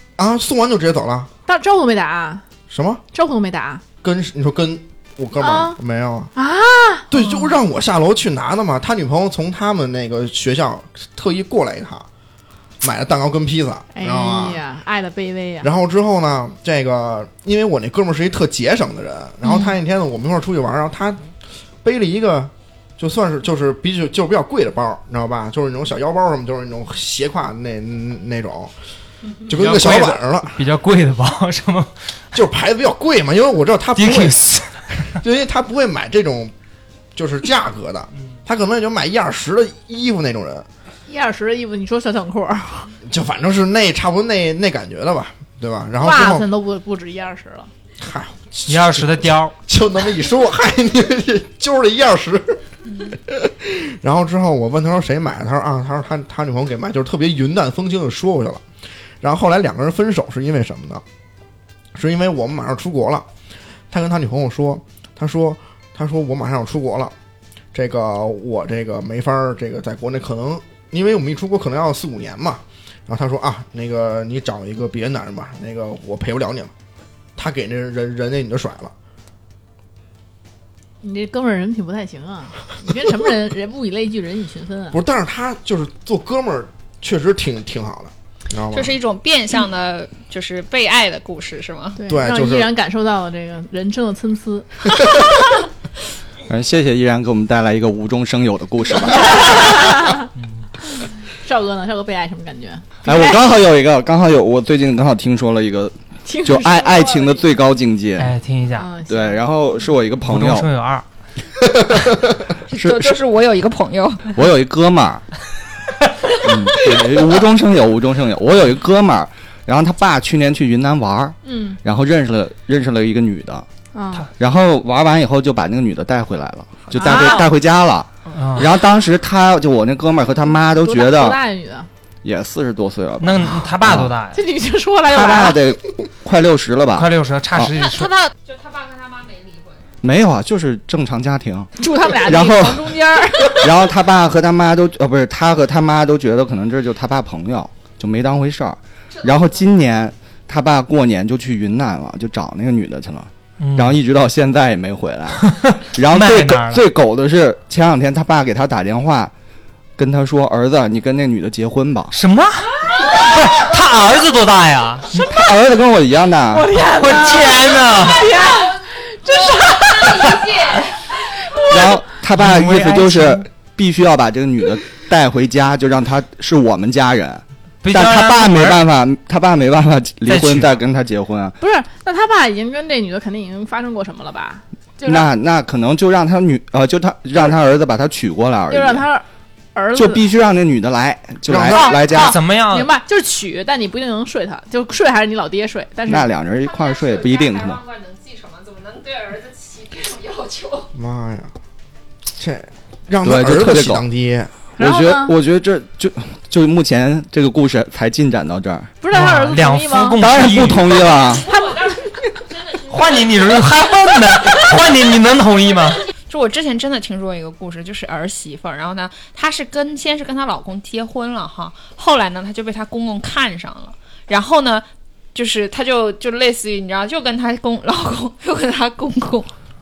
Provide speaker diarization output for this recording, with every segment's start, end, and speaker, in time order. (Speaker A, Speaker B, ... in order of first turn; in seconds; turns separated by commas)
Speaker A: 0.2-1.3, Speaker B: 1.5-2.4, Speaker A: 2.7-3.0, Speaker B: 3.1-3.8, Speaker A: 4.0-6.3, Speaker B: 5.4-5.8, Speaker B: 6.3-7.1, Speaker A: 7.1-12.1, Speaker A: 12.8-14.6, Speaker B: 13.9-15.7, Speaker A: 15.6-21.3, Speaker A: 21.8-28.7, Speaker A: 29.5-30.6, Speaker C: 29.5-31.9, Speaker A: 32.3-34.4, Speaker C: 34.0-35.2, Speaker A: 35.1-36.5, Speaker A: 37.1-40.7, Speaker B: 41.1-43.0, Speaker A: 43.0-46.5, Speaker B: 46.0-47.7, Speaker A: 48.0-58.6, Speaker C: 48.7-49.5, Speaker A: 59.2-61.0, Speaker A: 61.9-63.3, Speaker A: 63.9-67.1, Speaker A: 67.7-76.7, Speaker A: 77.4-78.9, Speaker B: 81.0-85.0, Speaker A: 84.9-89.0, Speaker D: 88.7-92.0, Speaker B: 92.0-95.0, Speaker A: 92.1-92.7, Speaker E: 96.5-100.0, Speaker B: 99.2-100.3, Speaker C: 100.4-100.7, Speaker B: 101.4-103.4, Speaker E: 103.0-108.4, Speaker B: 106.2-107.5, Speaker C: 108.2-108.9, Speaker B: 108.8-109.4, Speaker E: 109.1-110.7, Speaker C: 110.3-111.0, Speaker D: 112.7-114.3, Speaker E: 112.7-113.2, Speaker E: 114.3-115.2, Speaker E: 116.4-123.7, Speaker B: 121.5-121.8, Speaker B: 123.9-124.3, Speaker E: 124.4-131.4, Speaker D: 126.9-127.5, Speaker B: 127.0-127.5, Speaker C: 128.3-128.7, Speaker B: 130.7-131.9, Speaker E: 132.2-134.1, Speaker C: 133.2-134.4, Speaker B: 134.3-135.6, Speaker E: 135.1-137.7, Speaker C: 136.9-138.2, Speaker D: 137.9-139.9, Speaker E: 140.0-159.3, Speaker B: 141.8-143.7, Speaker D: 149.1-149.7, Speaker C: 153.6-154.0, Speaker C: 155.4-156.8, Speaker E: 160.0-162.2, Speaker C: 162.1-165.3, Speaker E: 165.2-166.8, Speaker B: 166.5-170.5, Speaker C: 166.9-168.3, Speaker D: 168.1-171.0, Speaker B: 171.4-171.7, Speaker E: 171.7-181.6, Speaker C: 172.3-173.5, Speaker C: 177.8-178.8, Speaker C: 180.3-180.7, Speaker B: 181.6-185.3, Speaker E: 185.1-189.1, Speaker B: 188.7-190.2, Speaker E: 189.9-192.4, Speaker A: 191.5-191.9, Speaker B: 191.7-196.3, Speaker C: 192.1-192.9, Speaker E: 196.1-197.8, Speaker D: 196.6-200.9, Speaker A: 200.9-201.5, Speaker A: 202.4-204.5, Speaker E: 203.2-204.0, Speaker B: 204.8-205.3, Speaker E: 204.8-208.9, Speaker B: 209.0-210.2, Speaker C: 209.1-211.0, Speaker E: 210.2-211.5, Speaker D: 211.1-213.6, Speaker B: 211.5-212.0, Speaker C: 212.9-216.0, Speaker D: 216.3-229.5